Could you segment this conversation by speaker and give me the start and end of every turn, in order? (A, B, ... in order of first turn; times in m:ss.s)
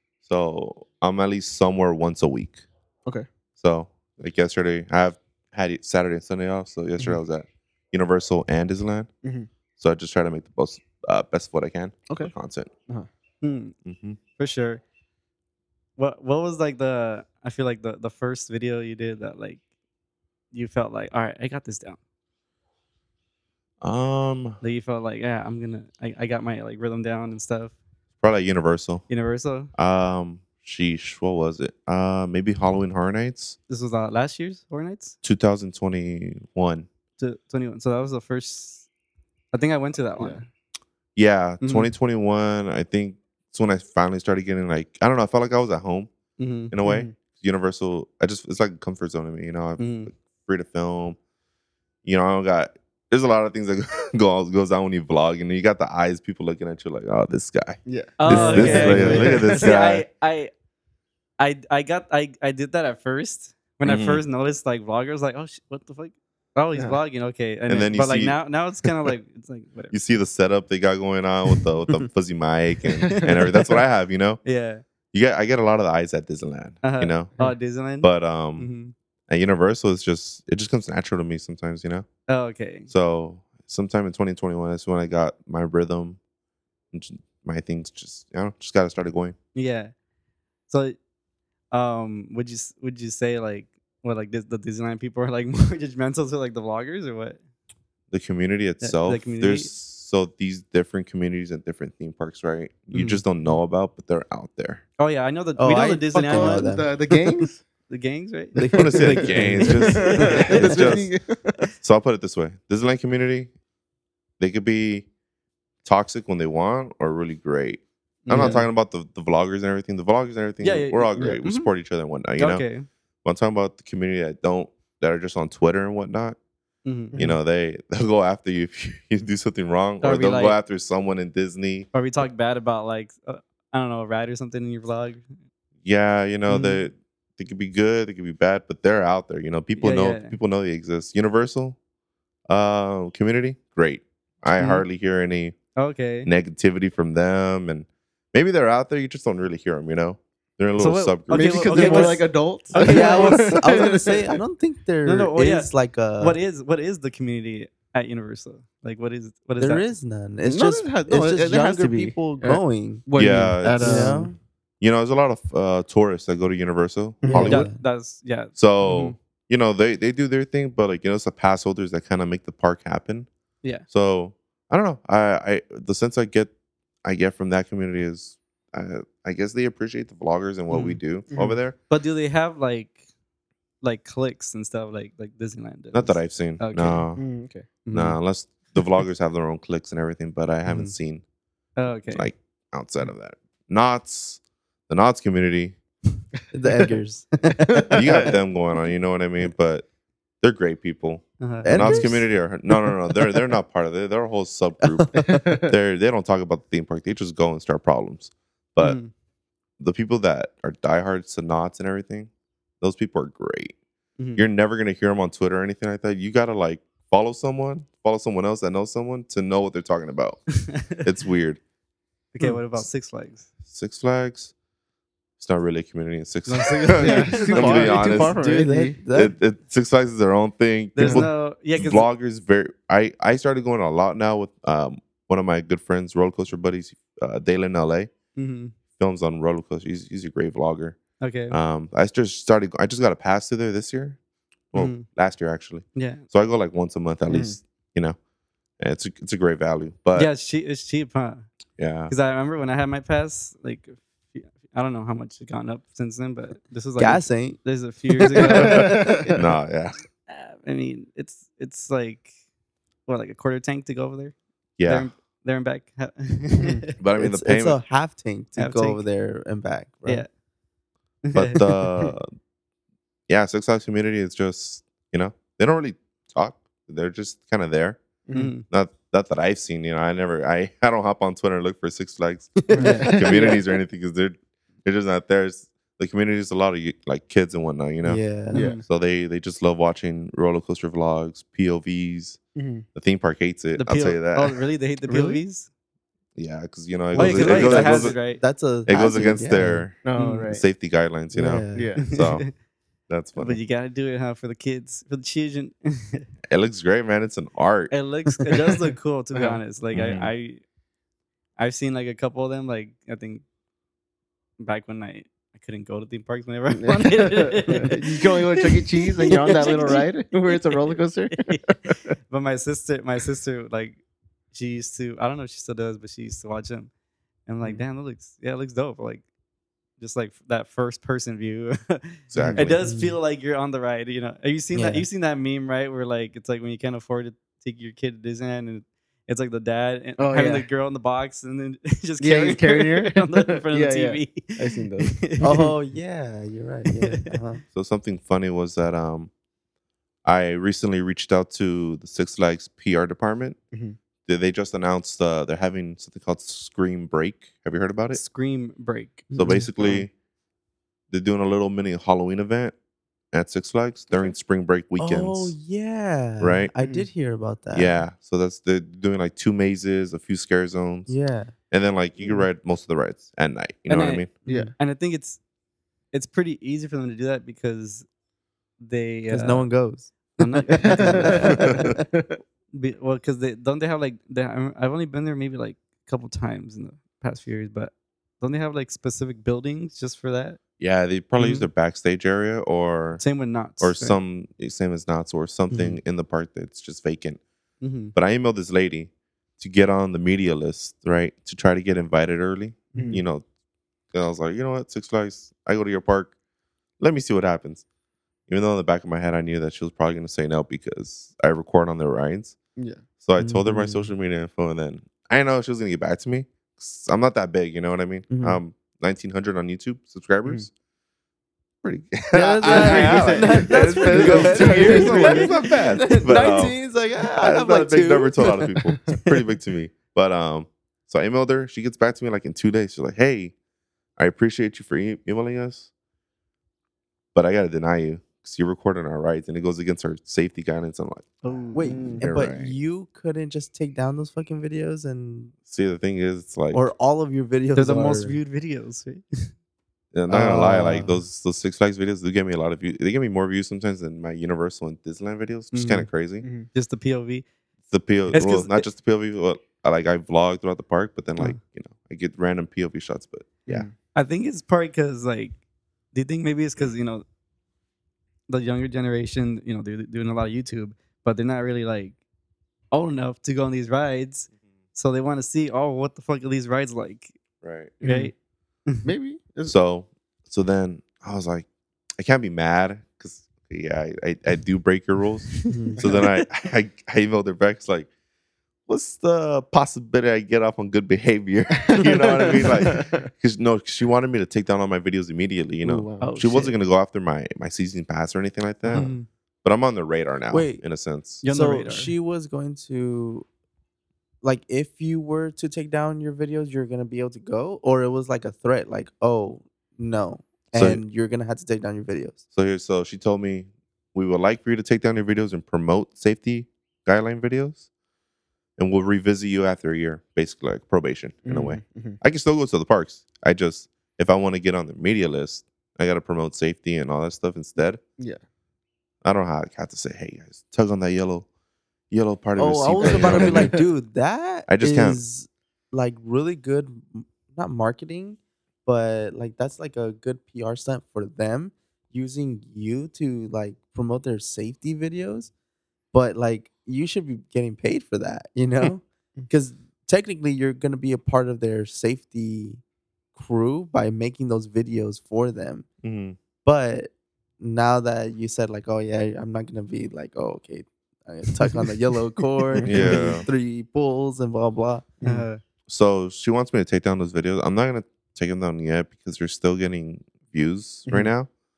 0:00.2-0:02.6 A
0:03.6-0:09.1 A
0:09.2-0:09.5 B
0:09.8-0:12.7 A
0:13.4-0:13.8 C
0:13.8-0:14.2 A
0:14.4-0:14.8 C
0:16.0-0:19.6 C
0:20.5-0:22.0 C
0:23.8-0:24.6 A
0:24.6-0:27.8 C
0:28.2-0:29.0 A
0:29.1-0:29.7 C
0:29.7-0:33.6 A
0:33.7-0:35.2 C
0:35.2-0:36.9 A
0:37.2-0:38.8 C
0:39.5-0:40.4 C
0:40.2-0:40.4 B
0:41.2-0:46.1 A
0:41.6-0:41.9 C
0:46.4-0:46.7 C
0:46.7-0:51.2 A
0:46.8-0:47.1 B
0:49.8-0:50.1 C
0:52.0-1:00.1 A
0:57.9-0:59.6 B
0:58.2-1:00.5 C
0:58.8-0:59.2 D
1:01.4-1:10.0 C
1:03.8-1:04.2 A
1:07.7-1:08.4 A
1:09.9-1:14.4 A
1:13.0-1:13.8 C
1:14.4-1:14.8 C
1:15.1-1:17.3 A
1:16.8-1:18.9 C
1:18.0-1:18.7 A
1:19.3-1:22.1 A
1:22.3-1:22.9 C
1:22.9-1:26.2 A
1:26.9-1:29.4 A
1:29.6-1:29.9 C
1:30.7-1:31.0 C
1:31.7-1:37.4 C
1:38.1-1:44.8 A
1:38.8-1:39.7 C
1:42.9-1:43.2 C
1:45.0-1:46.7 C
1:45.6-1:47.5 D
1:46.2-1:47.6 B
1:47.9-1:50.8 C
1:48.6-1:49.7 D
1:48.6-1:51.7 B
1:48.7-1:51.1 A
1:51.8-1:53.5 A
1:54.4-1:55.1 A
1:55.8-2:02.6 A
1:58.3-1:58.7 C
2:00.6-2:01.7 C
2:02.4-2:02.9 C
2:03.2-2:06.4 A
2:06.8-2:07.2 C
2:07.1-2:07.4 B
2:07.1-2:11.9 A
2:10.0-2:10.6 C
2:11.9-2:15.3 C
2:15.8-2:21.8 A
2:16.5-2:16.8 C
2:19.8-2:20.4 C
2:22.5-2:25.6 A
2:24.6-2:24.8 C
2:25.8-2:26.3 C
2:26.2-2:32.2 A
2:30.8-2:33.7 C
2:31.3-2:34.4 B
2:32.8-2:36.4 D
2:35.0-2:39.8 C
2:39.6-2:43.0 D
2:40.5-2:44.3 B
2:43.2-2:44.2 A
2:43.8-2:44.4 D
2:44.8-2:47.6 A
2:47.2-2:47.6 B
2:47.2-2:47.8 D
2:47.4-2:49.2 C
2:48.6-2:53.3 A
2:53.9-2:56.5 A
2:57.0-3:01.8 A
3:00.7-3:01.0 C
3:01.3-3:01.6 B
3:01.9-3:03.0 C
3:03.8-3:07.0 C
3:05.9-3:07.2 A
3:07.2-3:07.7 B
3:07.8-3:08.2 C
3:07.9-3:11.2 A
3:10.6-3:10.9 C
3:11.8-3:12.3 C
3:12.1-3:15.8 A
3:16.5-3:18.4 D
3:17.7-3:18.3 B
3:17.9-3:19.9 A
3:20.4-3:29.0 A
3:21.4-3:22.2 C
3:21.6-3:22.3 D
3:24.8-3:25.4 D
3:25.2-3:25.7 B
3:28.8-3:29.1 C
3:29.8-3:32.3 A
3:32.8-3:33.8 A
3:34.2-3:34.4 C
3:34.4-3:41.6 A
3:40.7-3:41.1 C
3:42.3-3:43.5 C
3:43.6-3:44.5 A
3:45.4-3:48.4 A
3:46.5-3:48.1 C
3:47.0-3:49.0 B
3:48.1-3:49.4 D
3:49.1-3:58.1 A
3:51.0-3:52.1 C
3:51.0-3:51.3 B
3:58.4-3:58.8 C
3:58.9-4:01.0 A
4:01.2-4:01.6 C
4:01.5-4:04.2 A
4:04.7-4:08.2 A
4:04.7-4:05.1 C
4:06.0-4:06.2 C
4:07.3-4:07.6 B
4:08.8-4:10.3 A
4:10.1-4:11.5 C
4:11.8-4:12.1 A
4:12.1-4:19.3 C
4:17.0-4:17.6 D
4:18.2-4:19.3 D
4:18.4-4:19.4 B
4:19.3-4:20.0 A
4:20.3-4:22.3 C
4:23.1-4:26.9 C
4:24.8-4:25.1 A
4:26.6-4:26.8 B
4:27.0-4:27.8 A
4:27.2-4:30.2 D
4:28.6-4:29.0 C
4:31.2-4:31.7 C
4:31.3-4:32.3 A
4:33.3-4:38.0 A
4:38.3-4:38.6 B
4:38.3-4:38.7 C
4:38.7-4:48.2 A
4:42.6-4:43.6 D
4:42.7-4:43.6 B
4:42.8-4:43.5 C
4:48.0-4:48.7 D
4:48.5-4:48.8 C
4:48.5-4:48.8 B
4:48.8-4:52.4 A
4:52.6-4:52.8 B
4:53.0-4:54.6 A
4:53.8-4:55.7 C
4:55.1-4:55.4 B
4:56.4-4:58.2 A
4:57.1-4:58.4 C
4:57.2-4:59.9 D
4:58.9-5:02.5 A
5:00.0-5:00.6 B
5:00.2-5:00.5 C
5:01.3-5:02.0 D
5:01.7-5:02.0 B
5:02.0-5:02.5 C
5:03.1-5:03.6 A
5:03.4-5:06.3 C
5:06.5-5:07.9 A
5:07.9-5:10.6 C
5:09.4-5:09.6 B
5:09.9-5:10.3 A
5:11.6-5:13.4 C
5:14.6-5:24.0 C
5:16.8-5:22.2 B
5:19.5-5:19.9 D
5:24.5-5:26.9 C
5:27.5-5:29.2 C
5:30.0-5:45.4 C
5:32.3-5:32.9 A
5:32.8-5:33.2 D
5:34.7-5:35.0 D
5:40.2-5:40.7 B
5:42.2-5:45.7 B
5:45.4-5:47.6 D
5:47.7-5:49.3 A
5:50.2-5:53.6 A
5:54.2-5:58.2 A
5:58.1-5:59.5 C
5:59.3-6:00.0 D
5:59.3-6:00.1 A
6:01.1-6:02.8 A
6:03.3-6:05.6 A
6:05.0-6:08.0 D
6:06.4-6:06.7 A
6:06.8-6:07.1 B
6:07.7-6:11.2 A
6:11.1-6:11.5 D
6:11.7-6:14.3 A
6:13.9-6:15.4 C
6:14.5-6:14.7 D
6:14.5-6:14.7 B
6:16.1-6:18.1 C
6:18.8-6:19.7 C
6:19.3-6:22.0 D
6:20.4-6:21.6 C
6:20.7-6:22.4 B
6:21.6-6:21.8 A
6:22.7-6:30.6 C
6:30.8-6:33.2 A
6:31.4-6:31.7 C
6:33.2-6:34.2 C
6:33.8-6:37.4 A
6:35.7-6:36.0 D
6:37.8-6:38.1 C
6:38.1-6:43.4 A
6:42.9-6:43.2 B
6:44.1-6:46.3 A
6:47.0-6:47.8 A
6:48.5-6:52.6 A
6:53.2-7:00.7 A
6:53.4-6:54.1 D
6:58.3-6:58.6 D
7:01.8-7:06.8 A
7:02.3-7:05.4 B
7:02.3-7:08.7 D
7:04.7-7:05.5 C
7:06.1-7:06.5 C
7:07.4-7:13.5 A
7:14.2-7:15.9 A
7:17.3-7:21.6 A
7:21.4-7:22.0 C
7:21.7-7:25.5 D
7:21.8-7:22.3 B
7:22.2-7:22.8 A
7:25.7-7:26.9 A
7:26.7-7:28.4 D
7:27.8-7:29.5 C
7:30.1-7:36.4 A
7:30.3-7:31.2 D
7:35.7-7:36.1 C
7:36.4-7:36.7 B
7:36.7-7:37.5 C
7:37.9-7:43.9 A
7:38.3-7:38.9 C
7:44.2-7:45.6 C
7:46.1-7:47.2 C
7:48.5-7:52.2 C
7:52.9-7:57.4 C
7:57.6-7:58.0 A
7:58.0-7:58.3 C
7:58.0-7:58.3 B
7:59.0-7:59.8 B
7:59.6-8:08.1 A
8:05.7-8:06.1 D
8:06.0-8:06.5 C
8:08.9-8:19.1 A
8:11.8-8:13.3 B
8:15.8-8:16.3 B
8:16.2-8:16.7 C
8:18.9-8:19.3 C
8:19.6-8:21.4 A
8:20.5-8:20.8 D
8:21.4-8:22.1 C
8:21.4-8:23.5 D
8:24.4-8:32.4 D
8:30.7-8:31.0 A
8:32.5-8:37.8 A
8:38.8-8:48.0 A
8:41.4-8:42.2 B
8:49.2-8:51.5 A
8:52.1-8:53.8 A
8:52.6-9:05.5 D
8:53.0-8:53.8 B
8:54.7-8:55.2 A
9:06.1-9:12.8 D
9:13.4-9:15.9 D
9:16.0-9:16.4 A
9:16.6-9:25.1 D
9:22.7-9:23.2 B
9:22.8-9:23.5 A
9:25.2-9:25.5 B
9:25.2-9:25.6 C
9:25.9-9:31.5 A